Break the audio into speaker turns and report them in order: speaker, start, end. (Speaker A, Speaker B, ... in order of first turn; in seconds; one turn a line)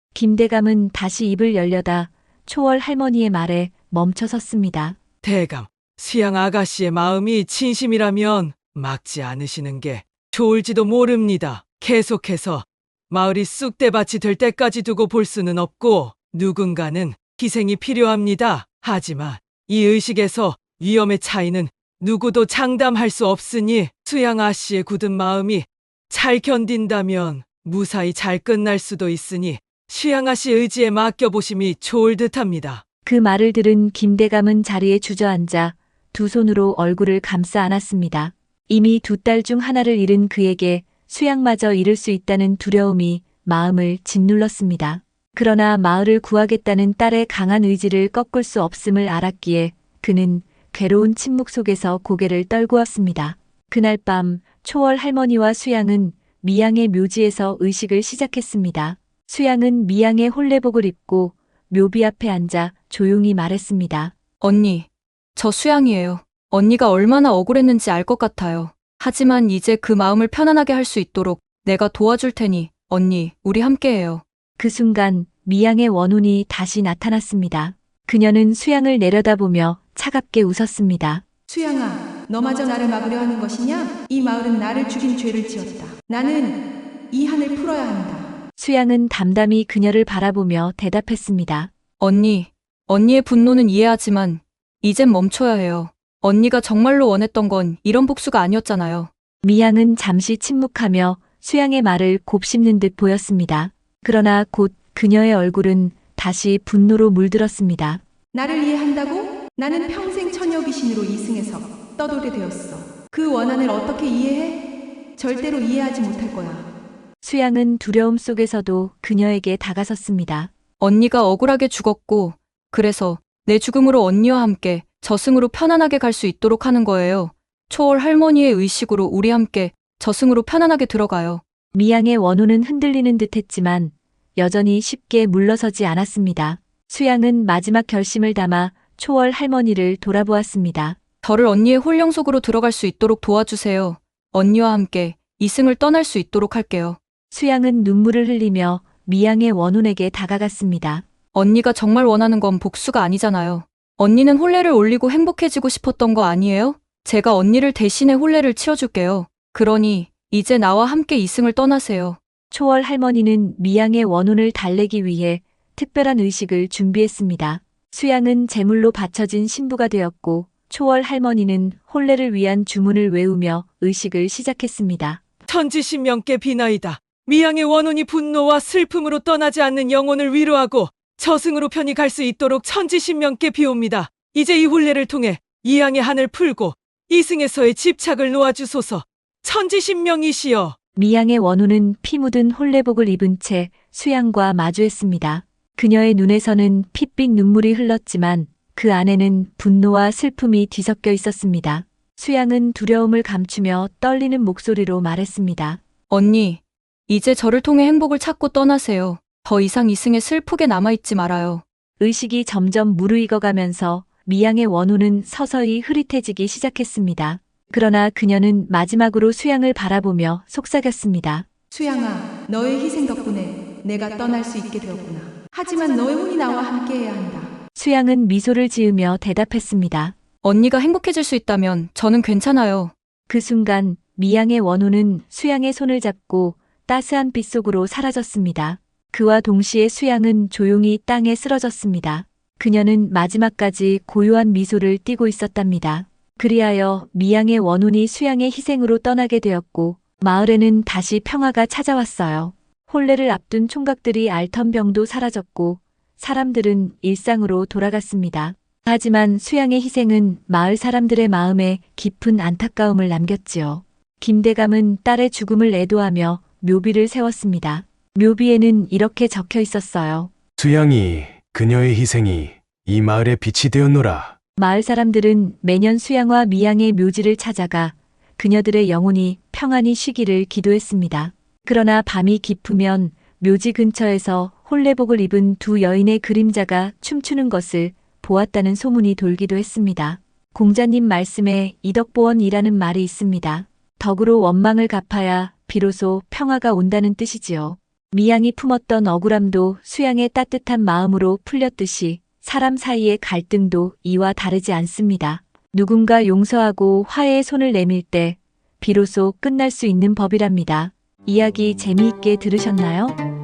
Speaker A: 0.1-5.0
Speaker B: 5.2-32.8
Speaker A: 33.0-64.1
Speaker C: 64.4-74.2
Speaker A: 74.6-81.2
Speaker D: 81.5-88.3
Speaker A: 88.6-91.7
Speaker C: 92.0-99.1
Speaker A: 99.4-108.0
Speaker D: 108.3-114.6
Speaker D: 115.2-116.7
Speaker A: 117.2-120.5
Speaker C: 120.8-131.4
Speaker A: 131.7-141.0
Speaker C: 141.2-147.0
Speaker A: 147.3-151.1
Speaker C: 151.3-162.2
Speaker A: 162.5-175.2
Speaker B: 175.5-190.8
Speaker A: 191.0-205.8
Speaker C: 206.1-211.6
Speaker A: 212.0-221.5
Speaker D: 221.7-227.5
Speaker A: 227.8-230.2
Speaker C: 230.4-232.9
Speaker A: 233.3-270.3
Speaker E: 270.6-274.4
Speaker A: 274.6-313.2